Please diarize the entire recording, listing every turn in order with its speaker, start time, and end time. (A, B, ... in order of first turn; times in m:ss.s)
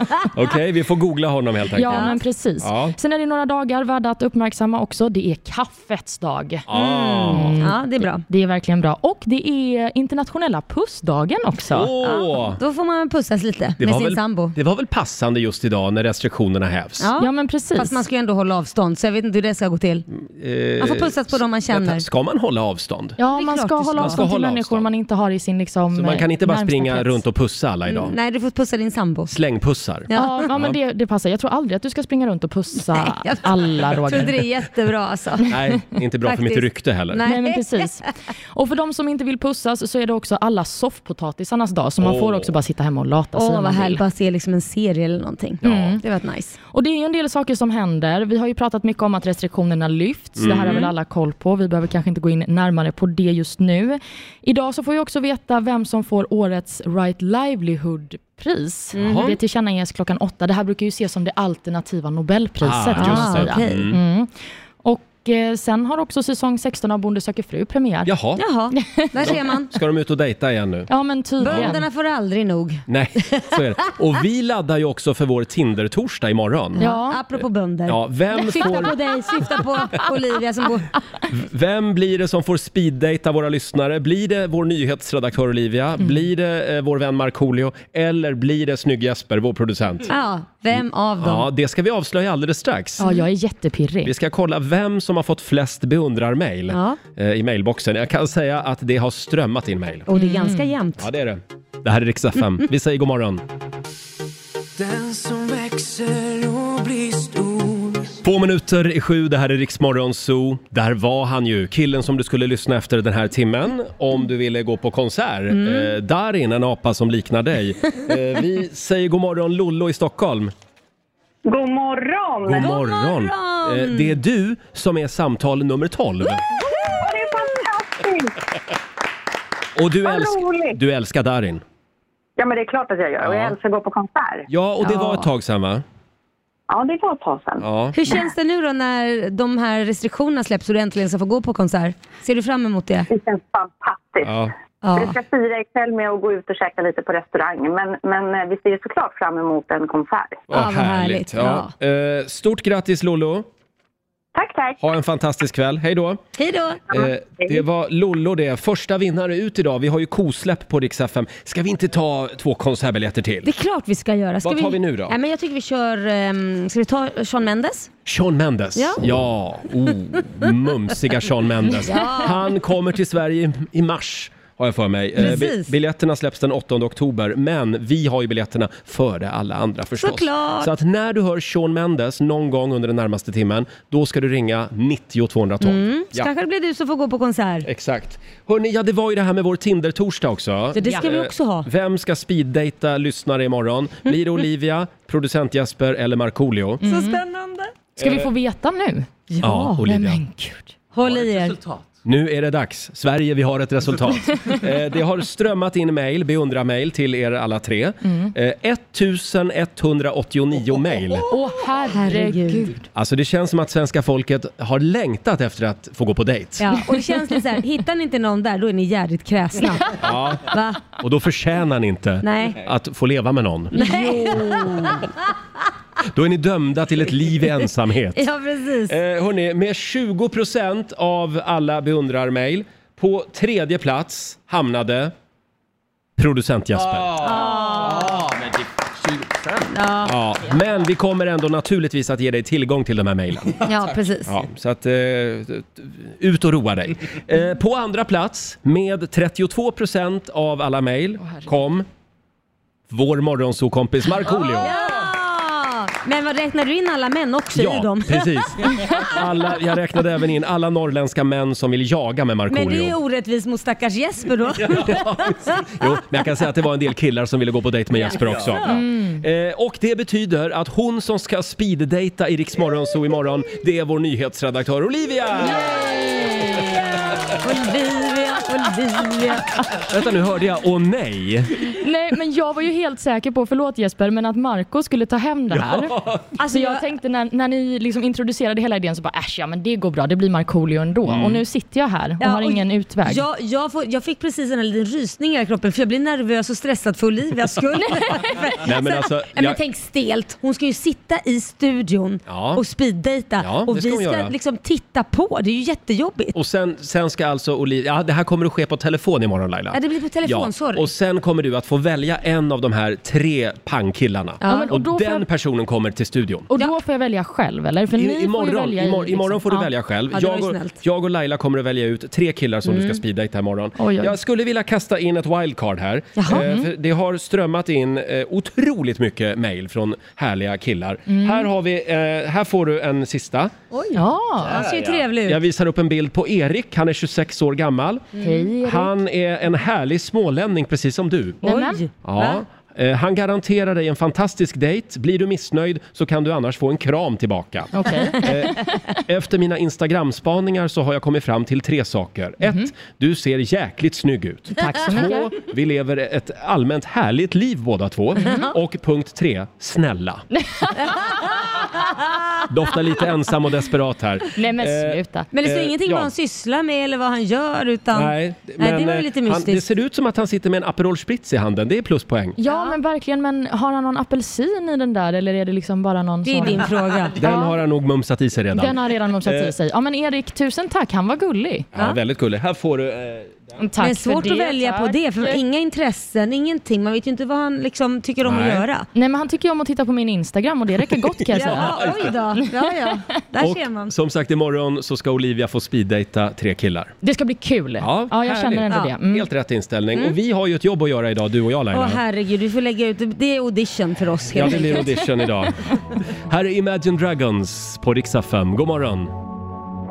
0:00.3-0:03.0 A
0:01.8-0:06.6 B
0:01.8-0:02.2 C
0:06.7-0:07.6 A
0:06.7-0:08.2 C
0:07.3-0:11.9 B
0:11.7-0:12.6 A
0:12.0-0:14.5 C
0:13.8-0:17.1 A
0:17.0-0:20.0 C
0:17.2-0:18.0 B
0:20.1-0:23.2 A
0:20.8-0:22.0 C
0:23.2-0:27.2 B
0:23.3-0:24.2 C
0:24.0-0:24.9 A
0:25.9-0:28.1 A
0:27.9-0:29.3 C
0:29.3-0:30.8 A
0:30.1-0:30.4 C
0:30.1-0:34.4 B
0:32.9-0:35.5 C
0:35.5-0:37.2 A
0:36.2-0:37.9 C
0:37.2-0:44.0 B
0:42.0-0:42.5 A
0:43.4-0:46.6 C
0:45.6-0:46.0 A
0:45.6-0:46.0 B
0:46.7-1:04.3 B
0:50.4-0:50.8 A
0:50.6-0:50.9 C
0:58.9-0:59.3 C
0:59.0-0:59.4 A
1:02.6-1:04.0 A
1:03.0-1:03.9 C
1:04.8-1:08.1 B
1:08.0-1:08.4 A
1:08.4-1:09.7 C
1:09.2-1:10.9 A
1:10.9-1:11.8 B
1:11.4-1:13.6 C
1:11.4-1:11.8 A
1:12.9-1:16.9 A
1:16.8-1:17.2 B
1:16.8-1:21.0 C
1:17.9-1:19.0 A
1:21.3-1:30.1 A
1:30.1-1:31.5 C
1:30.7-1:33.0 A
1:33.0-1:34.1 B
1:34.0-1:40.1 A
1:36.7-1:37.0 C
1:40.1-1:41.1 C
1:40.1-1:40.7 B
1:41.0-1:43.4 A
1:44.8-1:48.0 D
1:48.2-2:00.5 A
1:55.5-1:55.9 C
2:01.4-2:02.7 E
2:02.4-2:06.4 A
2:02.6-2:04.2 C
2:07.0-2:08.4 E
2:09.8-2:11.6 A
2:10.0-2:10.8 E
2:12.4-2:14.5 E
2:13.2-2:13.5 A
2:14.5-2:15.8 A
2:14.8-2:15.3 C
2:16.7-2:17.6 E
2:17.6-2:18.0 A
2:17.9-2:23.1 C
2:23.1-2:24.4 E
2:24.2-2:24.5 A
2:24.8-2:25.2 C
2:24.9-2:30.4 E
2:30.5-2:33.5 A
2:30.5-2:31.7 C
2:34.3-2:34.8 E
2:34.8-2:36.2 A
2:36.4-2:37.0 C
2:36.9-2:43.5 A
2:43.4-2:47.9 C
2:44.4-2:45.2 A
2:48.0-3:06.3 A
2:48.8-2:49.0 C
2:51.8-2:52.4 C
2:55.2-2:55.7 C
3:00.0-3:00.7 C
3:05.6-3:07.7 C
3:07.6-3:16.8 A
3:10.7-3:11.7 C
3:16.8-3:17.2 B
3:16.8-3:17.7 C
3:18.0-3:19.1 B
3:18.0-3:18.3 A
3:19.3-3:19.8 C
3:19.4-3:20.2 A
3:19.9-3:20.7 B
3:20.9-3:21.6 C
3:22.0-3:31.3 A
3:28.0-3:28.3 B
3:31.3-3:32.8 B
3:31.9-3:32.7 C
3:32.9-3:36.7 A
3:36.6-3:40.8 C
3:40.0-3:44.2 A
3:42.2-3:42.6 C
3:43.8-3:45.1 C
3:43.8-3:44.9 B
3:46.1-3:48.3 A
3:48.1-3:49.0 C
3:48.9-3:55.1 A
3:56.2-3:57.4 A
3:57.2-3:58.2 C
3:59.7-4:00.1 C
4:00.0-4:03.7 A
4:03.6-4:04.4 C
4:04.2-4:11.9 A
4:11.2-4:11.5 B
4:12.9-4:14.8 A
4:14.5-4:18.4 C
4:17.5-4:23.0 A
4:22.5-4:25.6 C
4:24.6-4:35.8 A
4:28.0-4:28.8 C
4:28.6-4:29.2 B
4:35.6-4:39.6 C
4:39.8-4:41.5 A
4:41.8-4:53.2 B
4:45.5-4:46.2 A
4:46.4-4:46.8 C
4:51.1-4:51.4 A
4:52.2-5:06.3 C
4:58.6-4:59.6 A
5:02.3-5:02.6 A
5:03.4-5:04.3 A
5:06.3-5:16.5 A
5:09.7-5:10.9 C
5:14.4-5:14.7 C
5:14.5-5:15.2 B
5:16.5-5:19.7 B
5:17.9-5:33.5 A
5:20.1-5:20.8 C
5:22.6-5:23.0 C
5:23.8-5:24.1 B
5:26.2-5:26.5 C
5:26.3-5:26.6 B
5:31.1-5:31.5 B
5:33.7-5:35.4 C
5:34.0-5:34.7 B
5:34.6-5:38.1 A
5:38.2-5:38.9 B
5:38.6-5:41.4 A
5:41.4-5:41.8 B
5:41.4-5:42.4 C
5:42.0-6:00.2 A
5:47.7-5:48.8 B
5:52.4-5:52.7 B
5:54.6-5:55.3 B
5:58.2-5:58.5 C
6:00.8-6:01.6 C
6:02.5-6:06.1 A
6:04.4-6:05.3 B
6:05.3-6:09.6 C
6:07.9-6:12.4 A
6:12.4-6:17.5 B
6:12.5-6:12.8 C
6:16.2-6:17.2 C
6:17.2-6:19.5 A
6:18.5-6:21.7 B
6:21.7-6:23.6 A
6:23.6-6:25.4 B
6:23.8-6:28.9 C
6:28.2-6:28.6 A
6:29.0-6:31.8 B
6:31.3-6:33.9 C
6:31.3-6:32.1 A
6:33.4-6:37.0 A
6:37.0-6:39.2 B
6:37.8-6:42.0 A
6:41.7-6:45.3 C
6:44.3-6:49.1 A